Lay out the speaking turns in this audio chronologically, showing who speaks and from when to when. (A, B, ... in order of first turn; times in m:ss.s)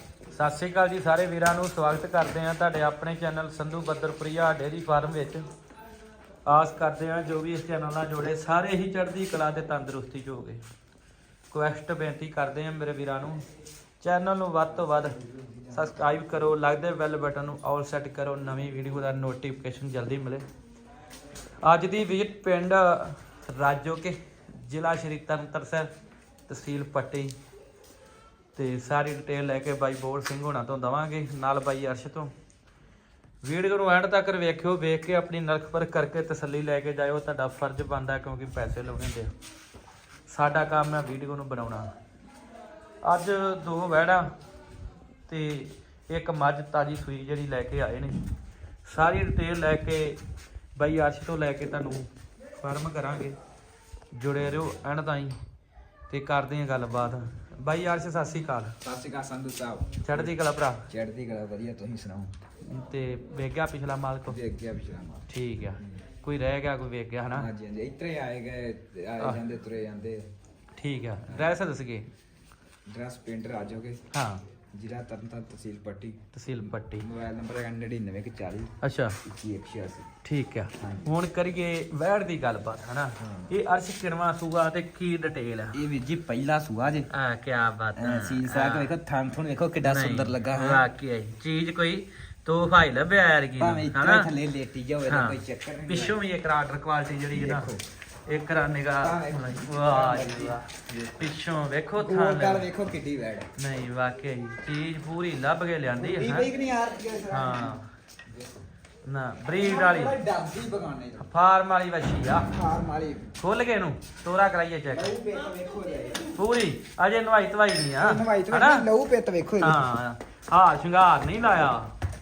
0:00.3-0:05.4 A
0:06.4-0:10.6 A
0:11.5-0:13.4 A
0:14.0-0:15.2 A
0:15.4-0:15.9 B
0:15.7-0:20.4 A
0:21.6-0:25.9 A
0:26.5-0:27.3 A
0:28.5-0:32.3 A
0:33.4-0:39.3 A
0:40.3-0:41.9 A
0:43.0-0:44.3 A
0:45.3-0:48.2 A
0:48.8-0:50.2 A
0:50.8-0:52.1 A
0:52.6-0:53.4 A
0:54.1-0:55.4 A
0:56.1-0:58.8 A
0:58.8-1:00.4 B
1:00.0-1:00.8 A
1:00.9-1:02.3 B
1:02.6-1:04.4 A
1:04.3-1:05.3 B
1:05.3-1:07.5 A
1:07.3-1:10.2 B
1:10.8-1:12.1 A
1:11.2-1:11.6 B
1:12.9-1:14.0 B
1:14.1-1:14.4 A
1:14.7-1:16.2 B
1:16.3-1:17.1 A
1:17.0-1:18.7 B
1:18.8-1:19.2 A
1:19.2-1:20.1 B
1:20.2-1:25.8 A
1:20.8-1:21.1 B
1:23.2-1:23.5 B
1:25.7-1:27.1 B
1:27.1-1:28.9 A
1:28.0-1:30.8 B
1:29.8-1:34.3 A
1:33.6-1:36.2 B
1:35.1-1:37.7 A
1:37.3-1:37.8 B
1:38.3-1:42.7 A
1:39.0-1:41.2 B
1:42.0-1:43.5 B
1:43.6-1:46.5 A
1:45.9-1:47.8 B
1:47.3-1:47.9 A
1:48.3-1:48.6 B
1:49.0-1:50.2 A
1:49.5-1:51.3 B
1:51.2-1:52.5 A
1:52.5-1:53.3 B
1:53.4-1:55.1 A
1:54.9-1:56.4 B
1:56.4-1:58.9 A
1:58.0-1:59.9 B
1:59.6-2:01.9 A